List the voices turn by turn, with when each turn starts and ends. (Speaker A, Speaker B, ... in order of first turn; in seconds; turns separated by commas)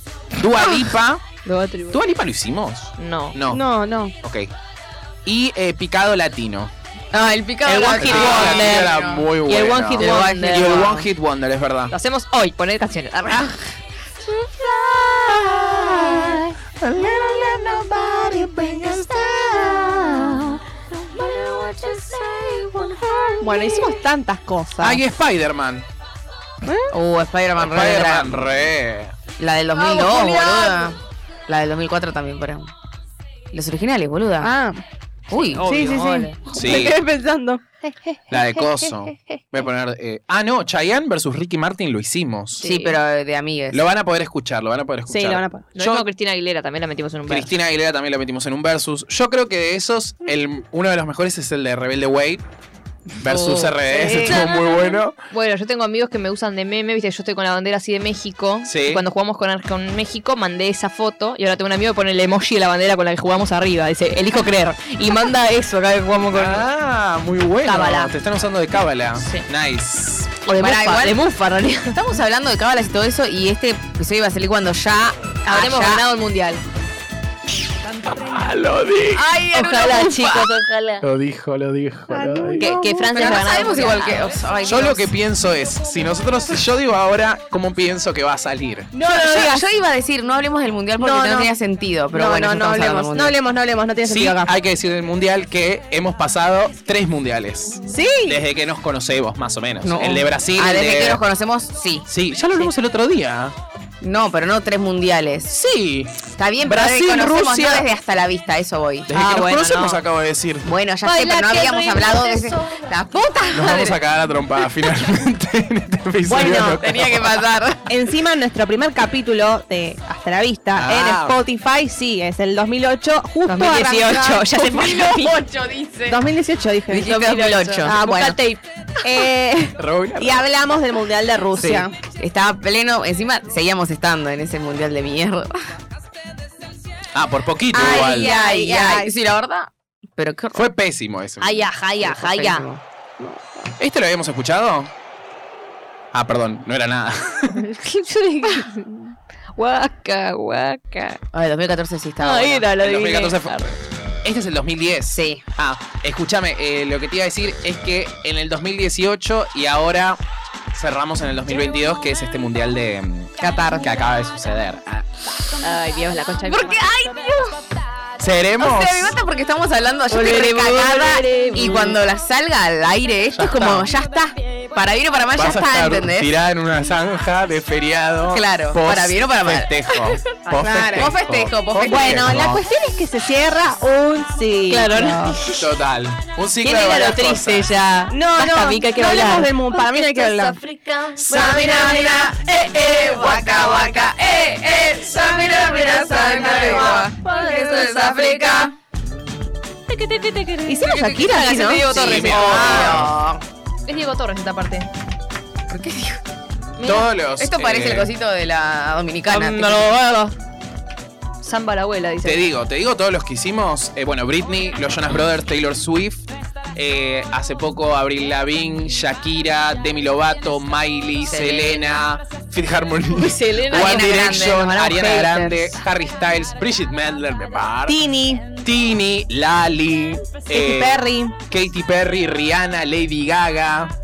Speaker A: 0.4-1.2, Speaker B: 1.4-2.0, Speaker A: 1.9-3.6, Speaker B: 3.0-3.4, Speaker C: 3.5-4.1, Speaker A: 4.2-4.5, Speaker A: 5.2-6.7, Speaker D: 7.1-9.3, Speaker B: 7.7-10.9, Speaker A: 7.7-11.9, Speaker D: 10.0-11.1, Speaker B: 11.9-13.7, Speaker E: 14.2-23.9, Speaker A: 15.6-20.2, Speaker C: 23.4-25.0, Speaker A: 24.8-25.9, Speaker C: 26.6-26.9, Speaker D: 26.9-28.5, Speaker A: 27.6-29.2, Speaker D: 29.4-32.7, Speaker C: 29.8-30.9, Speaker D: 33.5-34.5, Speaker C: 34.4-34.8, Speaker D: 35.3-35.7, Speaker B: 35.3-36.4, Speaker C: 35.6-38.9, Speaker A: 36.5-37.0, Speaker A: 38.3-42.7, Speaker B: 42.6-43.0, Speaker D: 42.6-43.9, Speaker A: 43.7-46.1, Speaker C: 45.1-45.7, Speaker B: 45.8-47.5, Speaker A: 47.3-52.4, Speaker A: 53.2-55.2, Speaker D: 53.2-53.8, Speaker C: 53.9-54.7, Speaker B: 54.1-66.7, Speaker A: 58.6-59.0, Speaker A: 66.3-70.3, Speaker B: 67.7-68.1, Speaker B: 69.2-69.5, Speaker B: 70.5-72.0, Speaker D: 70.6-71.2, Speaker D: 71.9-76.1, Speaker B: 75.5-76.6, Speaker B: 77.8-78.3, Speaker A: 78.1-79.2, Speaker D: 79.1-80.5, Speaker B: 79.5-81.1, Speaker A: 81.0-82.7, Speaker C: 82.1-83.6, Speaker B: 82.6-84.4, Speaker D: 83.1-85.1, Speaker A: 84.6-88.9, Speaker C: 88.9-89.7, Speaker D: 89.1-93.3, Speaker C: 91.0-91.5, Speaker C: 92.1-94.5, Speaker A: 94.0-101.2, Speaker C: 97.9-98.4, Speaker D: 99.8-102.1, Speaker A: 102.1-103.5, Speaker D: 104.0-105.5, Speaker A: 105.5-107.9, Speaker D: 106.4-109.1, Speaker A: 109.1-110.7, Speaker B: 109.1-110.0, Speaker D: 110.7-114.0, Speaker B: 111.0-112.6, Speaker A: 113.5-117.4, Speaker C: 116.3-116.8, Speaker D: 116.8-117.9, Speaker C: 117.9-124.7, Speaker A: 120.8-121.4, Speaker B: 123.5-125.4, Speaker D: 124.6-126.2, Speaker C: 126.1-127.2, Speaker D: 126.9-128.3, Speaker B: 127.0-128.6, Speaker C: 127.8-128.4, Speaker C: 129.0-131.9, Speaker A: 129.8-130.4, Speaker D: 131.6-135.6, Speaker A: 137.2-138.3, Speaker C: 137.7-139.1, Speaker D: 137.7-140.7, Speaker A: 140.5-141.7, Speaker B: 141.4-142.7, Speaker D: 142.0-142.8, Speaker C: 143.2-143.7, Speaker A: 143.8-144.9, Speaker A: 146.1-147.7, Speaker B: 147.6-151.2, Speaker D: 151.3-152.7, Speaker B: 152.2-153.7, Speaker A: 152.8-160.2, Speaker D: 155.1-155.4, Speaker A: 160.7-165.2, Speaker B: 165.6-167.0, Speaker D: 166.5-167.6, Speaker A: 168.2-169.2, Speaker D: 168.6-176.3, Speaker B: 170.1-172.0, Speaker A: 173.3-173.9, Speaker A: 175.3-182.6, Speaker D: 178.3-179.7, Speaker B: 180.5-180.9, Speaker C: 180.6-181.1, Speaker D: 180.8-182.4, Speaker C: 181.8-185.4, Speaker B: 184.7-185.6, Speaker A: 185.6-187.7, Speaker B: 186.6-192.3, Speaker C: 188.1-190.6, Speaker E: 191.2-196.4, Speaker D: 191.3-198.7, Speaker C: 191.5-191.8, Speaker B: 196.0-198.7, Speaker B: 199.9-203.0, Speaker C: 200.7-202.0, Speaker D: 200.9-203.4, Speaker A: 201.9-203.2, Speaker B: 203.9-204.9, Speaker D: 205.7-206.2, Speaker B: 206.8-207.1, Speaker A: 206.8-208.1, Speaker D: 207.3-210.1, Speaker B: 209.3-210.3, Speaker B: 211.4-212.4, Speaker A: 212.2-228.0, Speaker B: 221.3-221.9, Speaker B: 223.2-225.4, Speaker D: 223.5-225.6, Speaker C: 227.9-228.4, Speaker A: 228.6-233.9, Speaker C: 230.5-231.4